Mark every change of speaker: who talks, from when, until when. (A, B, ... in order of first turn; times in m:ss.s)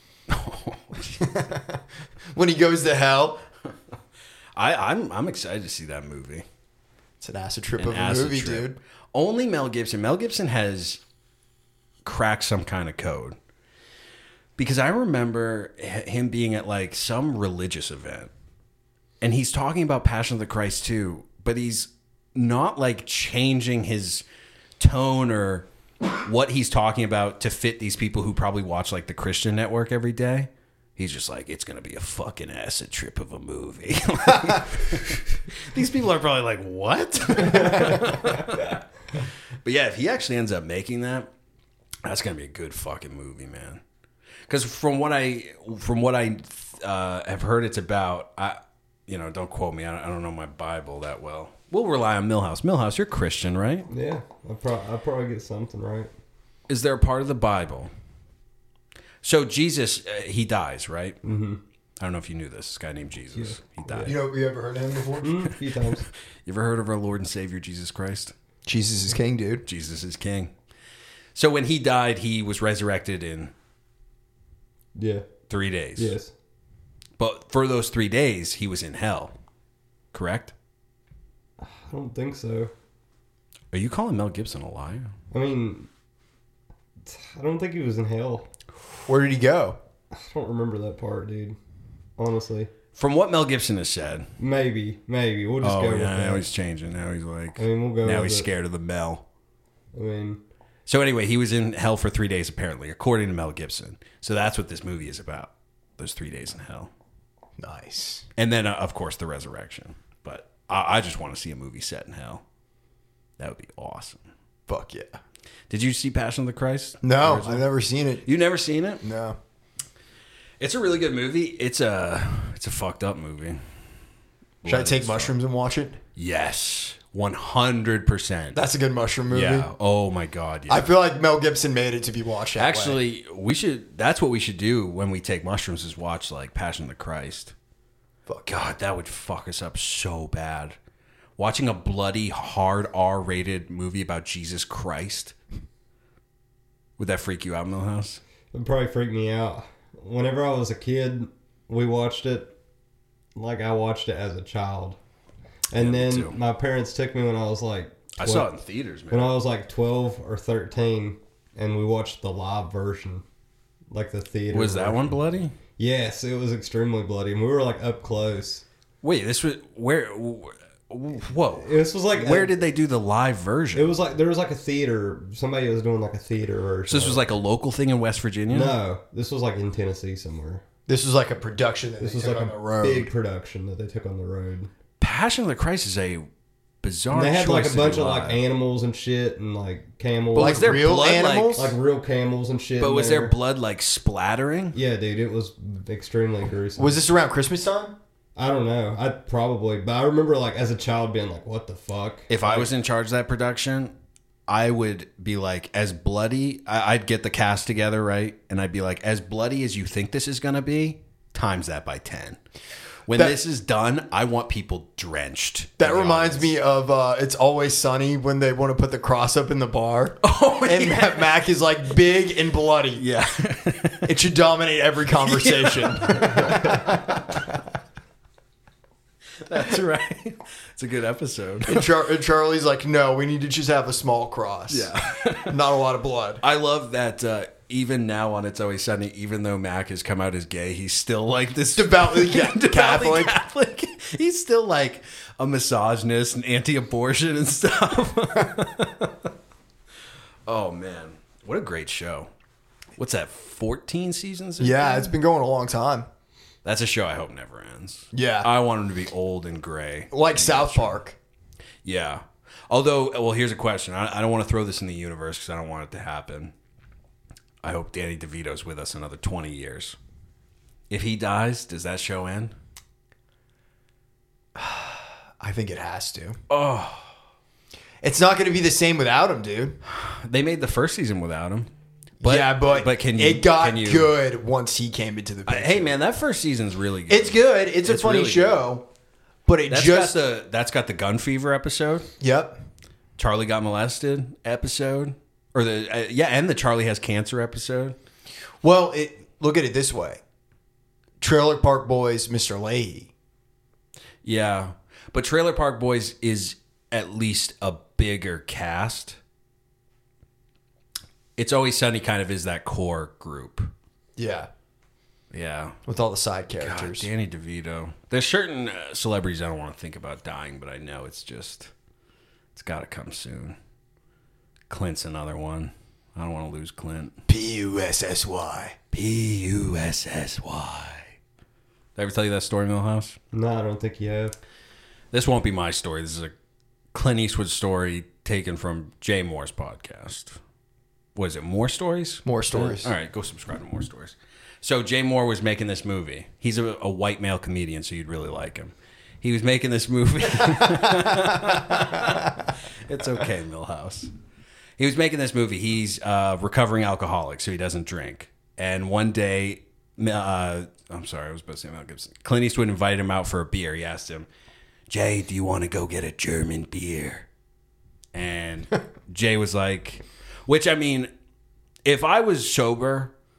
0:00.3-0:01.3 A
0:01.2-0:01.8 B
0:02.3-0:03.4 B
0:04.6-0:06.4 A
0:07.2-0:08.8 B
0:07.8-0:11.0 A
0:12.0-0:13.4 A
0:14.6-0:18.3 A
0:19.2-0:24.2 A
0:24.8-0:25.7 A
0:26.2-0:38.8 A
0:39.6-0:41.3 A
0:42.0-0:43.8 A
0:44.5-0:53.9 A
0:53.9-0:56.1 C
0:56.7-0:57.9 A
0:59.2-1:01.2 A
1:01.2-1:01.6 C
1:02.0-1:04.1 A
1:03.3-1:04.1 C
1:04.0-1:05.4 B
1:05.2-1:06.0 C
1:06.4-1:08.3 A
1:08.6-1:09.6 B
1:09.6-1:10.5 A
1:11.3-1:13.5 A
1:15.0-1:15.2 C
1:15.5-1:16.1 A
1:16.0-1:16.3 C
1:17.2-1:19.3 A
1:20.1-1:20.5 A
1:21.6-1:22.7 C
1:23.7-1:25.1 A
1:25.3-1:25.9 C
1:27.0-1:28.5 C
1:29.1-1:29.8 B
1:30.1-1:31.6 C
1:32.2-1:32.7 C
1:32.9-1:34.3 A
1:34.4-1:36.4 C
1:35.6-1:39.2 A
1:37.6-1:38.5 C
1:39.9-1:40.4 C
1:40.8-1:46.9 A
1:47.6-1:48.3 B
1:48.4-1:52.4 A
1:53.4-1:54.2 A
1:54.7-1:55.2 B
1:55.7-1:57.6 A
1:57.0-1:58.3 B
1:58.2-1:59.0 A
1:59.0-1:59.4 B
2:00.6-2:03.6 A
2:04.6-2:05.3 A
2:04.6-2:06.0 B
2:06.2-2:08.6 A
2:08.5-2:09.7 B
2:09.3-2:10.9 A
2:10.7-2:13.0 B
2:12.6-2:17.5 A
2:18.4-2:20.8 A
2:21.4-2:25.4 A
2:27.0-2:28.2 A
2:28.5-2:32.5 C
2:33.3-2:35.0 C
2:35.7-2:38.5 C
2:35.7-2:36.4 A
2:38.2-2:39.4 A
2:39.1-2:43.2 C
2:43.9-2:45.2 C
2:44.5-2:45.5 A
2:45.8-2:48.6 C
2:49.0-2:53.9 A
2:51.6-2:52.5 C
2:53.7-2:57.2 C
2:56.9-2:58.8 A
2:58.5-3:00.6 C
3:00.8-3:03.1 B
3:02.0-3:04.7 C
3:05.0-3:06.3 A
3:06.8-3:08.4 A
3:07.1-3:10.8 C
3:10.3-3:11.7 A
3:10.3-3:11.7 B
3:11.5-3:13.3 C
3:12.8-3:14.8 A
3:14.7-3:17.0 C
3:16.8-3:18.0 B
3:18.4-3:22.7 C
3:22.3-3:23.9 A
3:24.5-3:32.4 A
3:33.1-3:36.5 A
3:35.8-3:43.0 B
3:40.2-3:41.3 A
3:43.0-3:44.1 A
3:44.0-3:47.3 B
3:45.2-3:46.9 A
3:49.4-3:51.9 A
3:51.6-3:54.9 B
3:54.7-3:55.5 A
3:55.4-3:56.4 B
3:56.4-4:09.1 A
4:01.7-4:03.4 B
4:10.5-4:12.3 A
4:13.0-4:14.9 A
4:14.6-4:16.0 B
4:16.6-4:21.0 A
4:18.1-4:18.5 B
4:20.1-4:21.2 B
4:21.8-4:26.5 A
4:27.6-4:30.0 A
4:30.9-4:32.5 A
4:34.6-4:36.4 B
4:36.5-4:37.1 A
4:38.0-4:39.8 B
4:39.8-4:41.7 A
4:42.2-4:45.9 B
4:42.2-4:44.1 A
4:45.5-4:48.7 A
4:47.1-4:48.8 B
4:49.4-4:50.2 B
4:49.7-4:52.1 A
4:52.2-4:52.6 B
4:53.2-4:58.0 A
4:58.6-5:00.2 B
5:01.2-5:03.1 B
5:04.2-5:09.2 A
5:11.4-5:13.7 A
5:14.2-5:14.5 B
5:15.3-5:15.8 A
5:15.8-5:17.1 B
5:16.6-5:21.7 A
5:22.5-5:23.6 A
5:24.7-5:27.2 A
5:27.3-5:28.8 B
5:28.9-5:31.2 A
5:32.0-5:33.2 A
5:33.3-5:34.3 C
5:35.1-5:36.3 A
5:36.9-5:40.4 A
5:41.1-5:54.1 A
5:42.2-5:42.9 B
5:54.8-6:04.3 A
6:04.9-6:07.3 A
6:08.1-6:11.1 A
6:11.8-6:13.1 A